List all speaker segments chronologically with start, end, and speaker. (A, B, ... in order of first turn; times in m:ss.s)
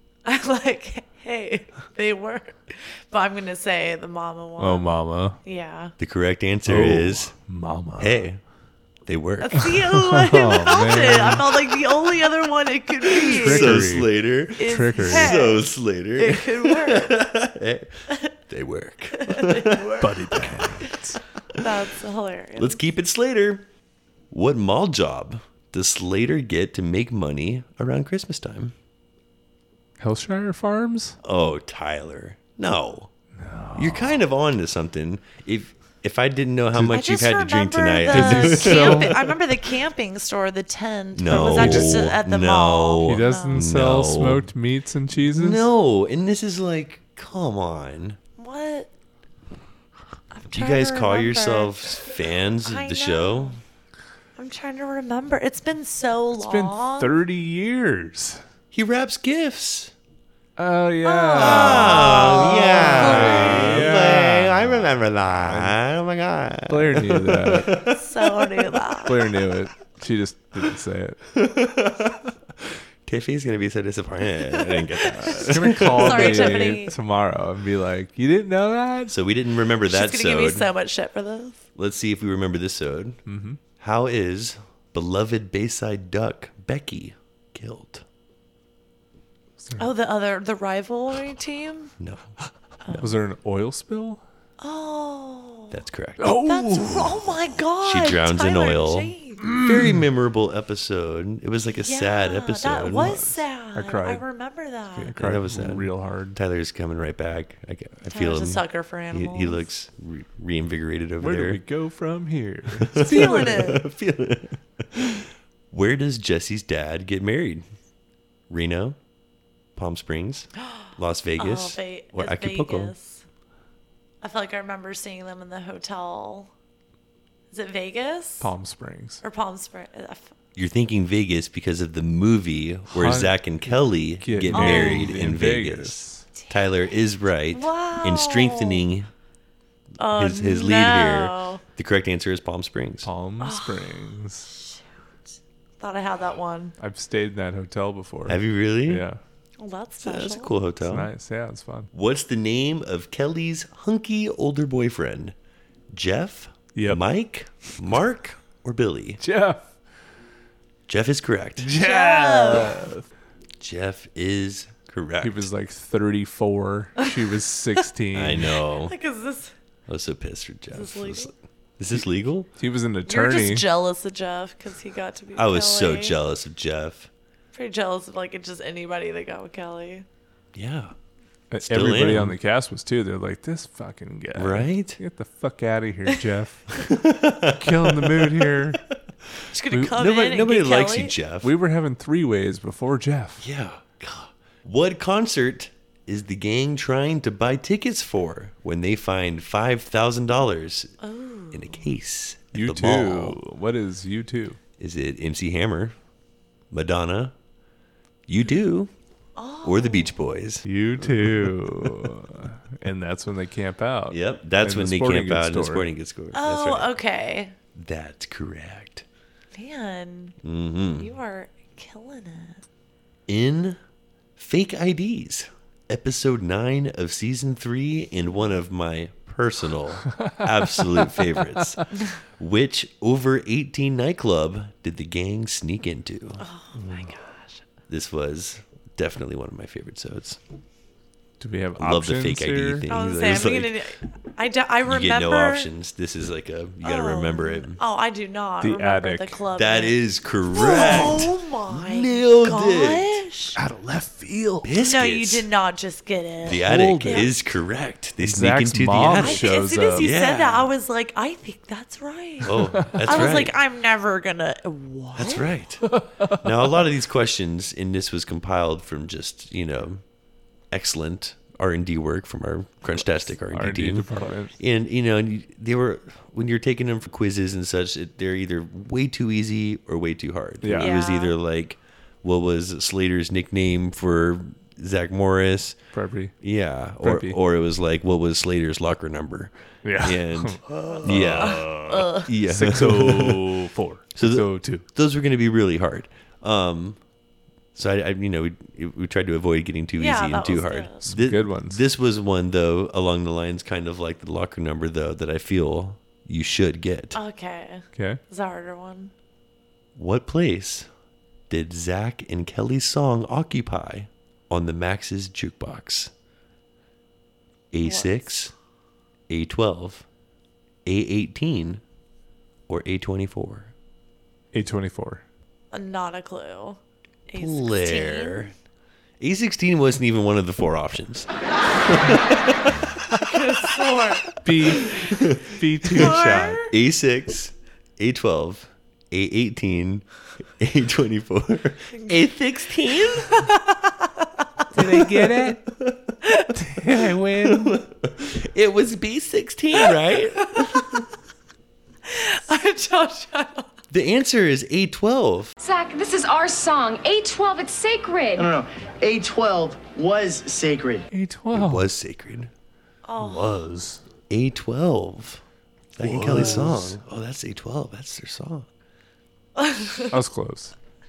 0:00.2-0:05.9 A
0:04.6-0:05.4 B
0:06.0-0:07.3 C
0:06.6-0:08.2 B
0:08.0-0:08.4 C
0:09.0-0:09.8 C
0:09.4-0:13.8 A
0:09.9-0:11.5 B
0:13.0-0:20.7 C
0:13.2-0:14.1 B
0:14.6-0:15.6 A
0:14.6-0:15.4 B
0:16.1-0:17.2 A
0:19.2-0:20.9 A
0:20.0-0:21.2 B
0:21.5-0:22.8 A
0:22.6-0:23.6 C
0:24.3-0:28.7 C
0:30.0-0:31.2 B
0:31.2-0:33.1 C
0:33.4-0:34.2 B
0:33.8-0:39.3 C
0:36.9-0:43.7 A
0:38.1-0:39.2 B
0:41.1-0:44.5 C
0:41.3-0:42.1 B
0:43.0-0:45.6 B
0:45.2-0:48.2 C
0:48.4-0:48.9 A
0:50.3-0:52.1 A
0:50.5-0:53.6 C
0:52.6-0:53.6 A
0:54.4-0:57.1 A
0:56.3-0:58.4 B
0:58.7-0:59.9 C
1:00.6-1:05.8 B
1:01.0-1:03.8 A
1:01.4-1:08.8 C
1:06.7-1:07.8 B
1:07.8-1:09.1 A
1:09.0-1:11.2 B
1:11.3-1:16.8 C
1:14.5-1:16.9 A
1:15.2-1:19.2 B
1:19.1-1:20.7 C
1:19.9-1:21.6 A
1:21.8-1:23.2 C
1:23.3-1:23.6 B
1:23.8-1:28.0 C
1:29.8-1:31.9 A
1:32.0-1:32.3 C
1:33.0-1:34.2 B
1:34.6-1:39.5 A
1:35.7-1:36.3 C
1:36.2-1:37.3 B
1:37.8-1:43.2 C
1:39.4-1:40.0 B
1:41.8-1:45.2 A
1:42.9-1:44.2 B
1:45.0-1:46.4 B
1:45.1-1:51.6 C
1:48.1-1:49.7 A
1:51.2-1:53.6 B
1:52.8-1:57.6 C
1:53.0-1:53.8 A
1:58.5-1:59.0 C
1:59.8-2:02.9 C
2:01.4-2:03.2 A
2:04.2-2:06.5 A
2:07.5-2:08.5 A
2:08.4-2:09.2 B
2:09.2-2:10.3 A
2:10.5-2:19.1 C
2:12.9-2:16.2 B
2:14.5-2:15.1 A
2:17.5-2:18.9 A
2:20.0-2:21.6 A
2:20.1-2:23.1 C
2:23.0-2:24.5 B
2:23.4-2:24.8 A
2:25.8-2:26.7 A
2:26.8-2:29.2 B
2:28.3-2:29.0 C
2:29.6-2:30.5 A
2:30.0-2:31.1 C
2:30.8-2:31.9 B
2:31.9-2:35.3 C
2:35.9-2:39.2 C
2:36.7-2:37.0 B
2:39.2-2:39.6 B
2:40.9-2:41.7 C
2:41.6-2:43.0 B
2:41.8-2:42.8 A
2:43.6-2:45.5 C
2:45.2-2:48.5 B
2:48.1-2:48.9 C
2:48.8-2:49.5 A
2:49.9-2:52.5 C
2:50.7-2:51.3 A
2:52.6-2:53.6 B
2:53.1-2:56.2 A
2:55.4-2:57.1 C
2:57.5-3:00.0 A
3:00.5-3:00.9 C
3:01.5-3:06.8 B
3:01.6-3:02.4 C
3:04.4-3:05.0 C
3:06.8-3:08.8 C
3:07.5-3:08.8 B
3:09.5-3:11.5 C
3:09.5-3:11.1 A
3:11.4-3:13.4 B
3:13.4-3:20.9 C
3:21.0-3:21.8 A
3:21.5-3:23.4 C
3:22.5-3:24.6 B
3:24.8-3:25.9 C
3:26.7-3:27.3 C
3:28.3-3:28.9 C
3:29.4-3:30.1 A
3:29.6-3:32.0 C
3:30.6-3:35.8 B
3:34.1-3:36.9 C
3:36.3-3:37.5 A
3:37.7-3:39.0 C
3:39.5-3:40.4 A
3:40.4-3:41.1 C
3:41.0-3:42.6 A
3:43.3-3:43.8 C
3:44.4-3:56.4 C
3:56.4-3:57.6 A
3:56.7-3:57.1 B
3:57.9-4:00.4 C
4:01.4-4:02.8 B
4:01.8-4:03.8 C
4:02.9-4:05.7 A
4:04.8-4:07.8 C
4:06.8-4:10.0 A
4:08.6-4:09.4 B
4:09.5-4:13.2 C
4:10.5-4:13.6 A
4:13.6-4:14.7 B
4:14.6-4:15.5 C
4:14.8-4:17.3 A
4:16.4-4:20.7 C
4:16.5-4:17.3 B
4:18.2-4:20.1 B
4:19.2-4:25.5 A
4:22.4-4:23.5 C
4:22.5-4:23.0 B
4:25.2-4:30.0 C
4:25.9-4:26.4 B
4:30.7-4:45.8 C
4:33.4-4:34.5 B
4:40.6-4:40.9 B
4:40.8-4:41.3 A
4:45.9-4:46.3 B
4:46.4-4:53.6 C
4:47.0-4:47.4 B
4:49.8-4:54.8 B
4:50.8-4:52.3 A
4:54.2-4:57.0 C
4:57.7-5:07.2 C
5:00.0-5:01.1 A
5:01.1-5:01.8 B
5:07.1-5:09.1 A
5:08.0-5:08.2 B
5:10.0-5:10.9 C
5:11.5-5:16.1 C
5:17.7-5:18.5 C
5:17.8-5:18.4 A
5:19.3-5:20.0 C
5:20.8-5:21.8 C
5:22.7-5:23.7 C
5:24.5-5:25.2 B
5:25.7-5:28.5 A
5:27.3-5:28.5 C
5:29.2-5:32.9 C
5:33.2-5:34.2 A
5:34.4-5:36.6 B
5:34.8-5:35.2 A
5:34.8-5:40.0 C
5:35.9-5:36.7 A
5:40.6-5:43.5 C
5:41.9-5:42.2 A
5:42.9-5:44.1 A
5:44.7-5:45.7 B
5:44.8-5:46.1 C
5:46.5-5:47.8 B
5:46.8-5:51.0 C
5:50.5-5:51.0 A
5:52.1-5:53.7 A
5:53.9-5:55.5 C
5:55.6-5:58.5 D
5:58.4-6:01.0 E
6:01.1-6:01.9 B
6:01.5-6:02.5 C
6:03.0-6:03.6 A
6:03.2-6:04.0 B
6:04.3-6:05.4 C
6:06.0-6:08.7 C
6:06.0-6:07.0 B
6:09.6-6:10.1 A
6:10.0-6:10.7 B